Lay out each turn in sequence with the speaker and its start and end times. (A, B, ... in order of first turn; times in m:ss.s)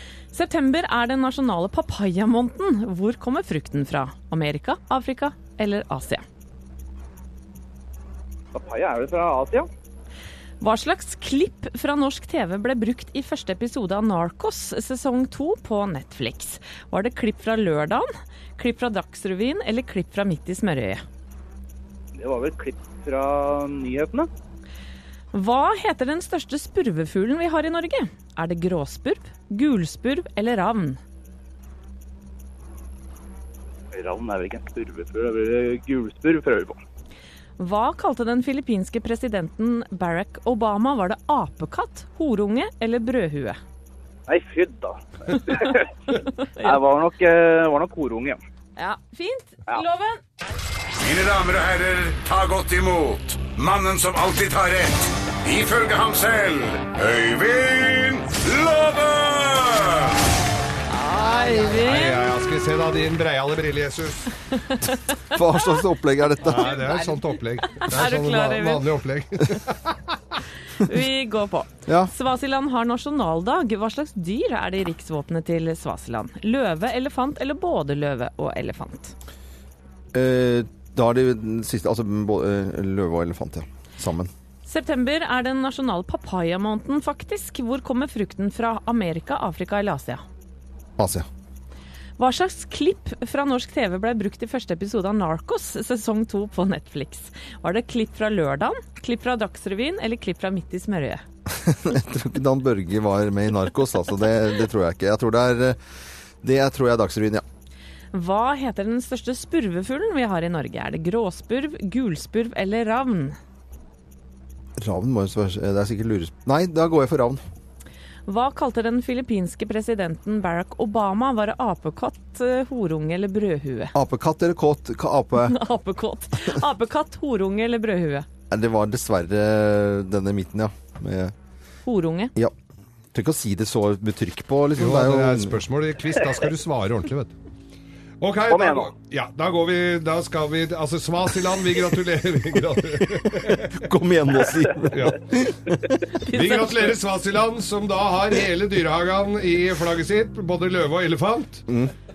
0:00.3-0:06.2 A
0:08.5-0:09.7 B
0:10.6-0:21.0 A
0:22.2-0:24.3 B
0:25.3-0:31.0 A
0:33.9-0:36.8 B
0:37.6-0:43.6 A
0:44.3-0:45.9 B
0:45.5-0:45.7 A
0:46.3-0:46.8 A
0:46.6-0:48.4 B
0:48.8-0:50.2 A
0:51.0-1:00.2 C
1:00.9-1:02.2 A
1:01.7-1:04.3 D
1:04.6-1:05.8 A
1:05.3-1:06.9 E
1:06.4-1:10.0 D
1:06.6-1:08.8 A
1:10.8-1:19.1 A
1:11.9-1:12.1 E
1:20.1-1:24.3 E
1:24.6-1:30.2 A
1:31.0-1:31.3 E
1:32.2-1:41.2 A
1:41.6-1:45.8 E
1:46.4-1:47.4 E
1:48.1-1:53.4 A
1:54.8-1:57.4 E
1:58.3-2:03.9 A
2:03.9-2:05.6 E
2:05.4-2:08.3 A
2:08.5-2:11.3 E
2:11.9-2:12.3 A
2:13.1-2:15.6 E
2:14.8-2:17.3 D
2:18.2-2:23.8 D
2:18.5-2:18.9 B
2:23.4-2:25.8 E
2:24.9-2:25.2 D
2:26.3-2:26.6 A
2:26.3-2:31.6 D
2:31.7-2:31.9 E